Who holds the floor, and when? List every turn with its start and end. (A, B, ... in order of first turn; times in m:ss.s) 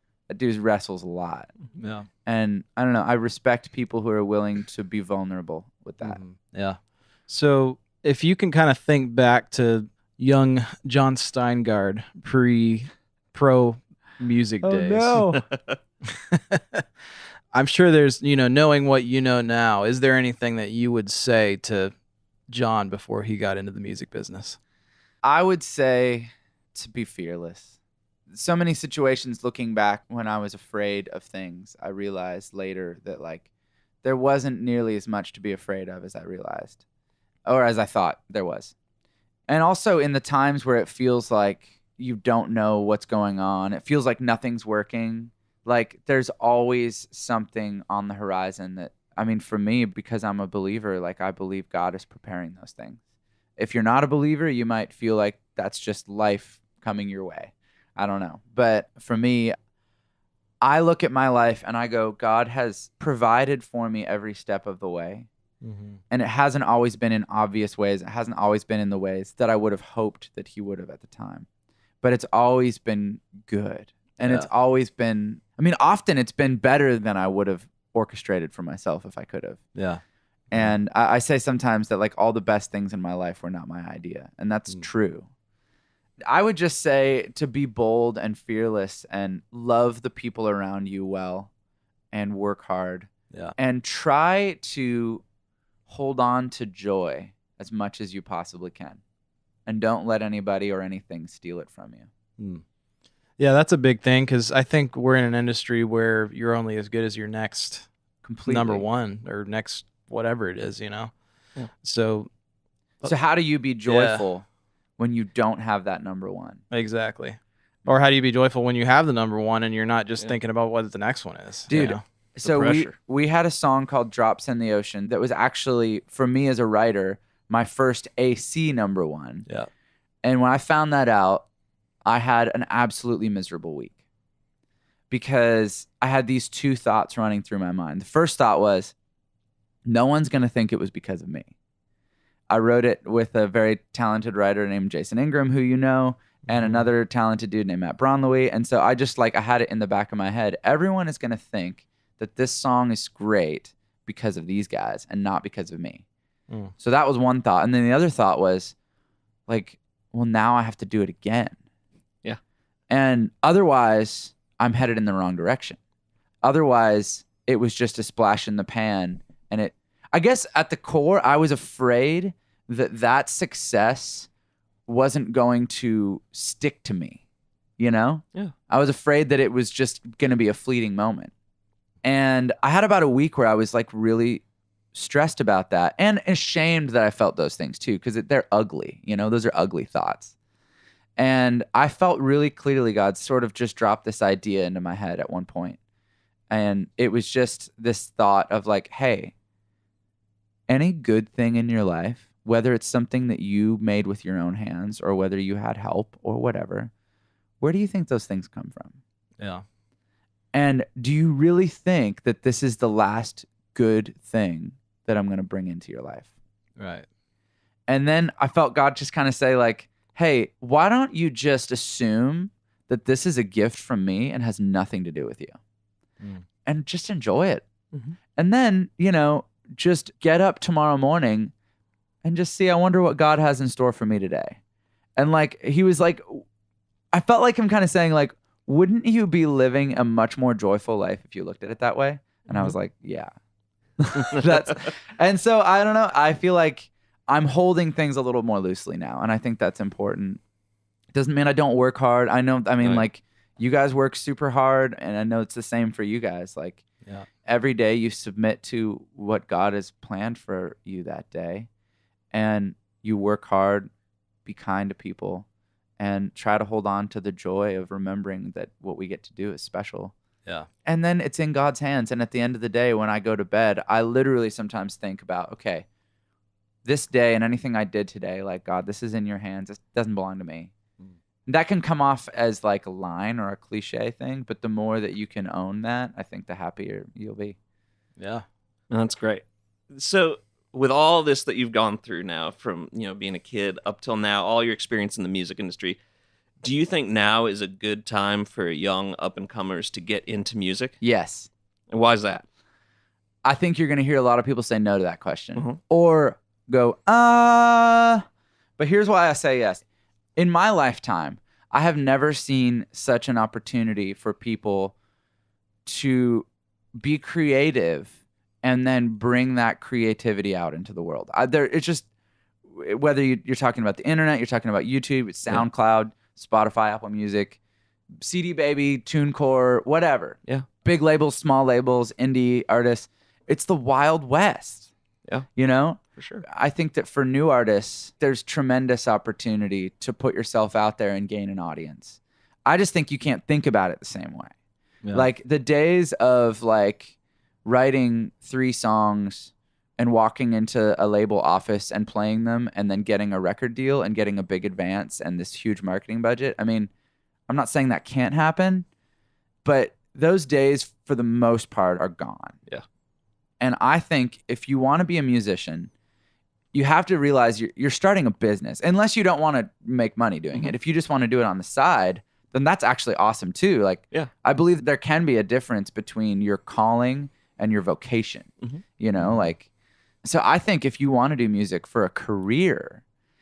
0:00.3-0:01.5 A
0:01.7-0:02.1 B
0:02.2-0:06.2 A
0:06.0-0:15.2 B
0:14.6-0:15.4 A
0:15.4-0:15.8 C
0:16.1-0:16.8 B
0:17.5-0:21.9 B
0:22.5-0:24.6 B
0:25.2-0:27.7 A
0:28.3-0:33.4 A
0:34.0-0:36.8 A
0:37.4-0:38.7 A
0:39.5-0:53.0 A
0:53.6-0:59.6 A
1:00.6-1:05.3 A
1:05.6-1:06.0 B
1:06.1-1:11.5 A
1:12.0-1:19.6 A
1:14.2-1:14.5 B
1:19.7-1:20.0 B
1:20.5-1:25.3 A
1:26.2-1:31.5 A
1:32.1-1:35.2 A
1:35.9-1:39.0 A
1:39.6-1:42.1 A
1:42.4-1:42.6 B
1:43.4-1:47.9 B
1:48.2-1:48.8 A
1:48.4-1:51.1 B
1:51.7-1:52.3 B
1:53.0-1:54.4 A
1:53.9-1:54.2 B
1:55.0-1:56.6 A
1:56.7-2:02.0 B
2:01.7-2:09.5 A
2:02.4-2:02.9 C
2:10.2-2:11.4 A
2:12.0-2:14.0 A
2:15.1-2:18.9 A
2:19.8-2:21.5 A
2:22.5-2:36.0 A
2:26.5-2:26.8 B
2:36.8-2:38.7 A
2:39.5-2:41.6 A
2:42.9-2:45.8 A
2:46.4-2:54.3 A
2:54.9-2:57.2 A
2:57.8-3:01.3 A
3:02.0-3:04.4 A
3:04.9-3:10.3 A
3:11.2-3:15.8 A
3:16.5-3:19.3 A
3:20.7-3:26.9 A
3:27.6-3:29.0 A
3:29.4-3:29.6 B
3:30.5-3:36.3 A
3:36.8-3:37.0 B
3:37.9-3:45.6 A
3:46.6-3:47.6 A
3:48.4-3:51.5 A
3:52.2-3:54.6 A
3:55.2-3:56.4 A
3:57.1-4:03.3 A
4:04.0-4:10.4 A
4:11.1-4:16.8 A
4:12.8-4:13.1 C
4:17.4-4:21.7 A
4:22.3-4:23.9 A
4:24.4-4:25.4 A
4:26.0-4:30.1 A
4:30.8-4:35.8 A
4:36.8-4:40.7 A
4:41.5-4:47.6 A
4:48.2-4:48.4 B
4:48.9-4:56.0 C
4:56.6-5:01.0 C
5:01.0-5:01.5 A
5:01.9-5:02.4 C
5:03.4-5:08.2 A
5:08.8-5:09.8 A
5:10.4-5:14.9 A
5:15.8-5:22.0 A
5:22.7-5:27.6 A
5:28.2-5:34.9 A
5:35.6-5:44.5 A
5:36.2-5:36.4 C
5:45.1-5:47.1 A
5:47.6-5:56.9 A
5:57.5-5:58.9 A
5:59.6-6:02.6 A
6:03.6-6:05.9 A
6:06.7-6:19.7 A
6:20.2-6:23.0 A